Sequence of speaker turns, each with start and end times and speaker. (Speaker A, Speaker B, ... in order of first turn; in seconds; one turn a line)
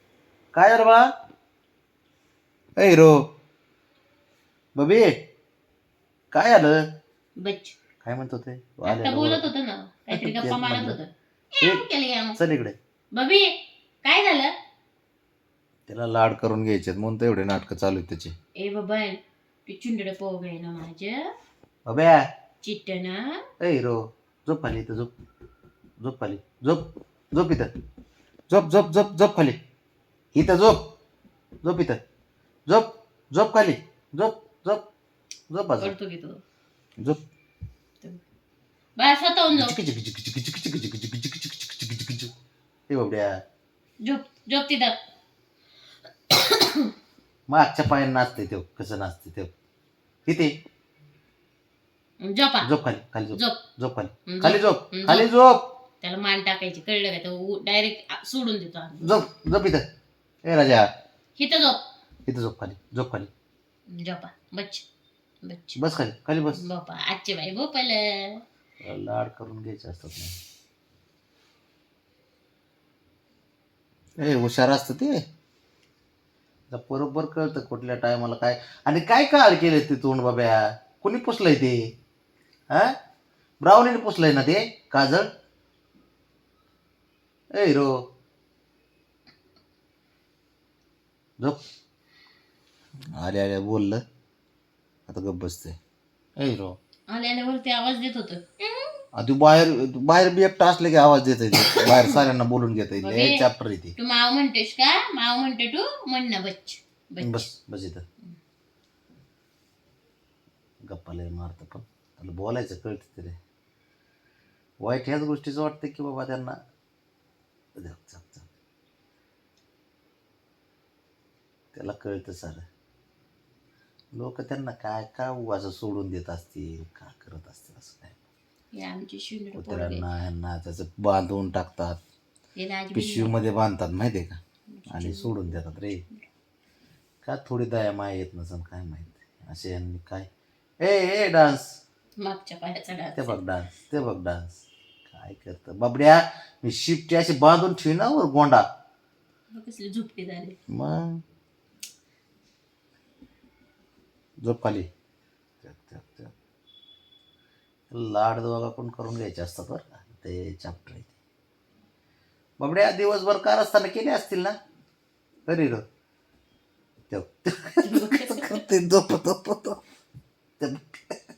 Speaker A: 0.5-1.0
Speaker A: 2.8-3.2
Speaker A: 4.7-5.1
Speaker A: 6.3-6.8
Speaker B: 7.4-7.7
Speaker A: 8.0-9.5
Speaker B: 8.8-12.4
Speaker A: 10.1-11.0
Speaker A: 12.4-12.8
Speaker B: 13.1-13.5
Speaker B: 14.0-14.5
Speaker A: 15.9-18.3
Speaker B: 18.6-21.3
Speaker A: 21.9-22.2
Speaker B: 22.6-23.4
Speaker A: 23.6-25.1
Speaker A: 26.0-27.7
Speaker A: 28.5-29.6
Speaker A: 30.3-30.8
Speaker A: 31.6-32.0
Speaker A: 32.7-34.8
Speaker A: 35.5-35.9
Speaker B: 35.8-36.4
Speaker B: 39.0-39.8
Speaker A: 39.5-42.3
Speaker A: 42.9-43.4
Speaker B: 44.0-44.9
Speaker B: 46.3-46.9
Speaker A: 47.5-49.5
Speaker A: 50.2-50.5
Speaker B: 52.2-52.7
Speaker A: 52.6-55.6
Speaker B: 53.3-53.6
Speaker B: 54.3-55.3
Speaker B: 56.0-59.2
Speaker A: 59.0-59.8
Speaker A: 60.4-60.9
Speaker B: 61.4-61.8
Speaker A: 62.2-63.3
Speaker B: 63.9-64.8
Speaker B: 65.4-65.8
Speaker A: 65.8-66.6
Speaker B: 66.5-68.4
Speaker A: 68.8-70.3
Speaker A: 74.2-75.2
Speaker A: 76.7-81.8
Speaker A: 83.6-85.3
Speaker A: 87.5-87.9
Speaker A: 93.2-94.0
Speaker A: 95.1-95.8
Speaker A: 96.4-96.8
Speaker B: 97.1-98.9
Speaker A: 99.1-104.0
Speaker B: 101.6-102.2
Speaker B: 103.0-103.4
Speaker B: 104.0-107.5
Speaker A: 107.2-108.0
Speaker A: 110.8-113.3
Speaker A: 114.8-116.5
Speaker A: 117.8-118.5
Speaker A: 121.7-122.6
Speaker A: 124.2-128.2
Speaker B: 128.7-130.0
Speaker A: 129.5-132.0
Speaker B: 132.6-133.3
Speaker A: 132.9-134.4
Speaker B: 134.7-136.3
Speaker A: 134.9-136.0
Speaker A: 137.2-140.3
Speaker A: 140.8-141.7
Speaker B: 142.2-143.4
Speaker A: 143.2-148.6
Speaker B: 149.5-150.6
Speaker A: 150.7-151.2
Speaker A: 154.4-154.9
Speaker A: 155.6-156.3
Speaker A: 157.9-161.1
Speaker A: 162.6-164.5
Speaker A: 165.5-165.8
Speaker A: 167.1-169.8
Speaker B: 167.8-168.6
Speaker A: 170.6-171.2